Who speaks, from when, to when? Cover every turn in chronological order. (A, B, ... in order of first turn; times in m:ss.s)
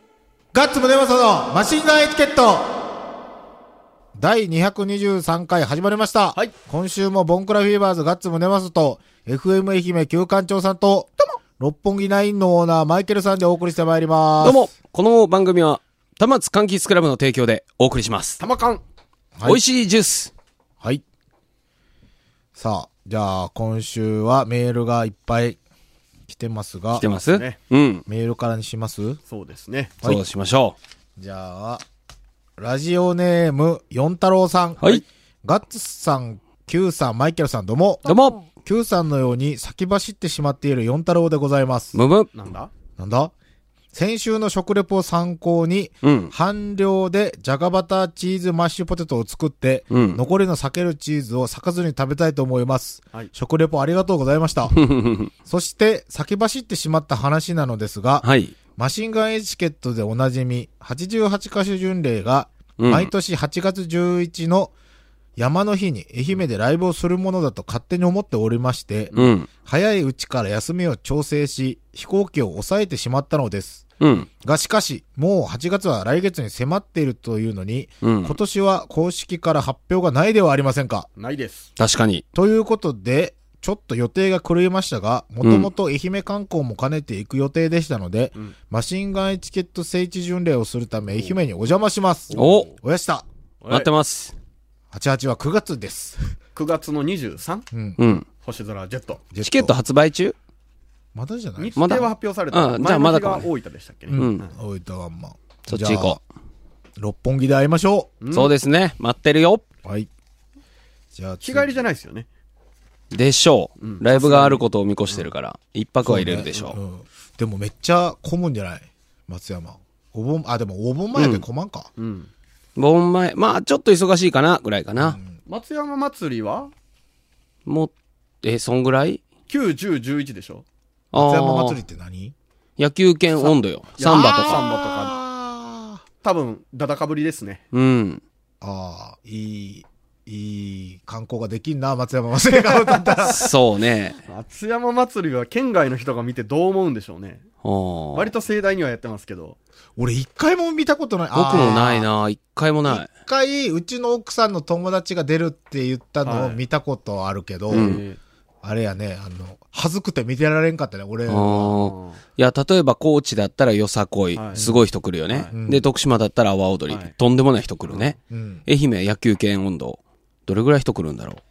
0:00.5-0:02.8 A
0:04.2-0:14.7 A
0:14.4-0:18.4 B
0:18.4-0:18.8 C
0:19.4-0:19.6 A
0:19.4-0:20.3 B
0:22.6-0:25.6 A
0:26.3-0:27.0 A
0:27.0-0:28.0 B
0:27.2-0:27.6 C
0:28.1-0:29.2 A
0:29.3-0:29.9 C
0:30.0-0:30.8 B
0:31.2-0:31.8 A
0:32.6-0:42.0 A
0:38.1-0:38.4 B
0:41.9-0:42.3 B
0:42.3-0:42.7 C
0:43.0-0:43.3 A
0:43.9-0:54.8 A
0:46.0-0:46.3 B
0:49.9-0:50.2 B
0:54.7-0:55.3 B
0:55.5-1:04.7 A
0:58.2-0:58.6 B
1:02.8-1:03.1 B
1:05.4-1:13.9 A
1:09.2-1:09.5 B
1:14.0-1:14.3 B
1:14.4-1:21.1 A
1:18.0-1:18.4 B
1:21.2-1:21.7 C
1:21.8-1:22.2 B
1:22.3-1:33.2 A
1:25.4-1:25.7 B
1:32.3-1:32.8 C
1:32.3-1:32.7 B
1:33.6-1:33.9 C
1:33.7-1:34.3 B
1:34.9-1:36.4 A
1:36.6-1:37.7 C
1:37.7-1:38.1 A
1:38.0-1:38.2 B
1:38.4-1:39.2 C
1:39.3-1:39.8 A
1:39.4-1:40.4 B
1:41.2-1:42.0 A
1:41.6-1:44.5 C
1:41.8-1:43.5 B
1:44.1-1:46.2 A
1:44.1-1:44.4 B
1:45.7-1:46.2 B
1:47.0-1:48.1 A
1:48.2-1:48.5 C
1:48.3-1:49.6 B
1:51.1-1:51.8 A
1:51.4-1:52.3 C
1:53.1-1:56.8 B
1:53.8-1:55.3 C
1:56.0-2:01.9 A
2:01.2-2:01.4 B
2:02.0-2:02.3 C
2:02.8-2:05.2 B
2:05.0-2:05.3 A
2:05.5-2:06.7 C
2:07.7-2:07.9 B
2:08.4-2:09.2 B
2:09.5-2:10.6 C
2:11.1-2:11.8 B
2:11.1-2:12.3 A
2:12.8-2:14.6 B
2:13.4-2:15.2 C
2:14.0-2:16.0 A
2:16.2-2:17.6 C
2:17.7-2:18.2 B
2:18.6-2:23.5 A
2:22.8-2:23.2 C
2:23.2-2:24.2 B
2:24.3-2:27.4 C
2:27.6-2:28.3 B
2:28.1-2:29.6 C
2:30.0-2:32.1 A
2:31.3-2:33.1 B
2:32.9-2:37.9 A
2:36.2-2:36.6 C
2:37.7-2:38.2 C
2:37.7-2:38.0 B
2:38.6-2:41.8 A
2:41.3-2:51.4 B
2:41.8-2:42.2 C
2:44.4-2:44.7 C
2:44.6-2:44.8 A
2:45.3-2:45.6 C
2:45.5-2:45.8 A
2:47.9-2:48.2 C
2:48.3-2:48.6 A